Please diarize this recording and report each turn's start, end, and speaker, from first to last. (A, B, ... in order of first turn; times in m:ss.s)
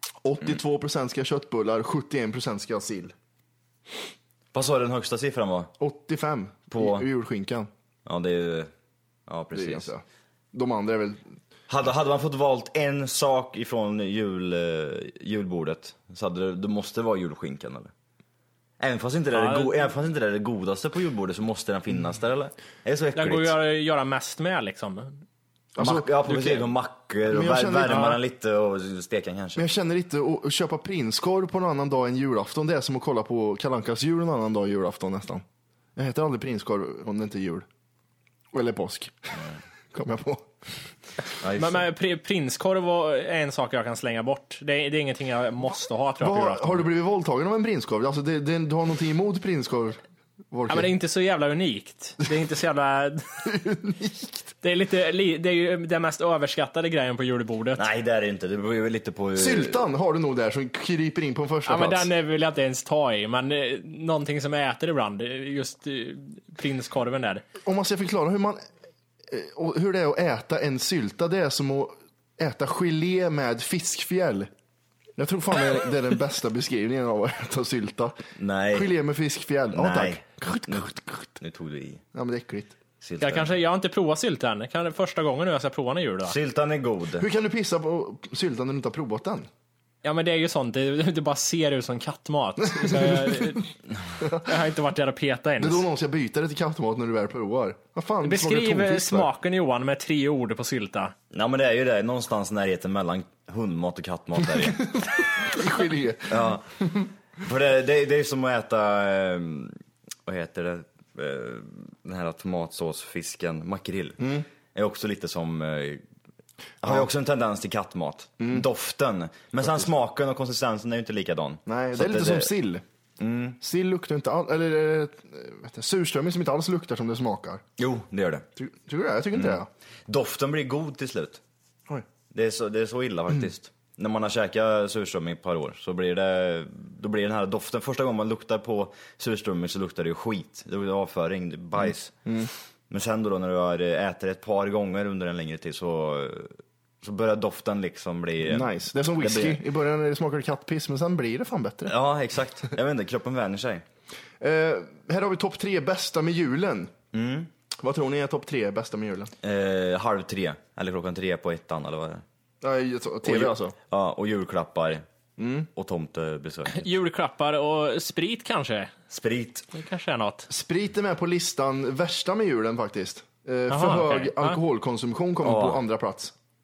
0:00.2-0:03.2 A
0:04.5-0:05.7 B
0:05.8-0:07.7 A
0:06.7-0:07.1 B
0:08.1-0:08.7 B
0:09.3-0:09.9 B
0:09.5-0:11.3 A
0:11.7-0:17.9 B
0:18.8-0:23.6 B
0:19.3-0:19.7 C
0:23.2-0:25.2 C
0:25.8-0:26.1 A
0:25.8-0:29.7 B
0:26.3-0:26.6 C
0:27.3-0:28.2 A
0:29.6-0:35.4 A
0:36.0-0:37.7 A
0:38.5-0:40.5 A
0:41.4-0:41.8 B
0:41.6-0:46.8 C
0:46.2-0:50.0 A
0:50.5-0:50.9 A
0:50.7-0:53.3 C
0:53.5-0:54.5 A
0:54.6-0:57.8 C
0:57.8-0:59.8 B
0:59.4-1:02.1 A
1:01.7-1:07.4 C
1:07.6-1:08.6 A
1:09.3-1:14.5 A
1:15.2-1:18.2 A
1:18.4-1:18.9 B
1:18.7-1:21.3 A
1:19.7-1:22.0 B
1:22.1-1:22.8 A
1:23.0-1:23.5 B
1:23.2-1:26.4 C
1:26.3-1:27.3 B
1:27.2-1:29.5 A
1:30.0-1:33.7 C
1:32.7-1:33.6 A
1:34.2-1:34.5 A
1:34.4-1:35.8 C
1:35.6-1:39.3 A
1:38.2-1:41.1 C
1:41.3-1:44.8 B
1:44.6-1:47.1 A
1:46.3-1:46.7 B
1:47.4-1:54.2 B
1:54.2-1:54.5 A
1:54.8-1:56.0 B
1:56.8-2:02.5 B
1:58.4-1:58.7 A
2:01.7-2:02.8 A
2:03.2-2:03.6 B
2:03.6-2:07.6 A
2:07.8-2:08.4 B
2:08.6-2:09.7 A
2:09.3-2:11.4 B
2:12.3-2:22.2 B
2:22.3-2:22.5 A
2:22.9-2:29.6 B
2:28.4-2:31.9 A
2:31.9-2:33.8 B
2:34.4-2:36.9 A
2:37.1-2:37.5 B
2:37.8-2:39.3 A
2:39.4-2:42.2 B
2:42.6-2:43.8 A
2:43.2-2:45.0 B
2:45.4-2:45.7 A
2:45.8-2:46.9 B
2:46.7-2:49.0 C
2:49.1-2:49.7 B
2:49.7-2:50.5 C
2:50.5-2:56.3 A
2:53.7-2:54.6 C
2:55.4-2:55.8 B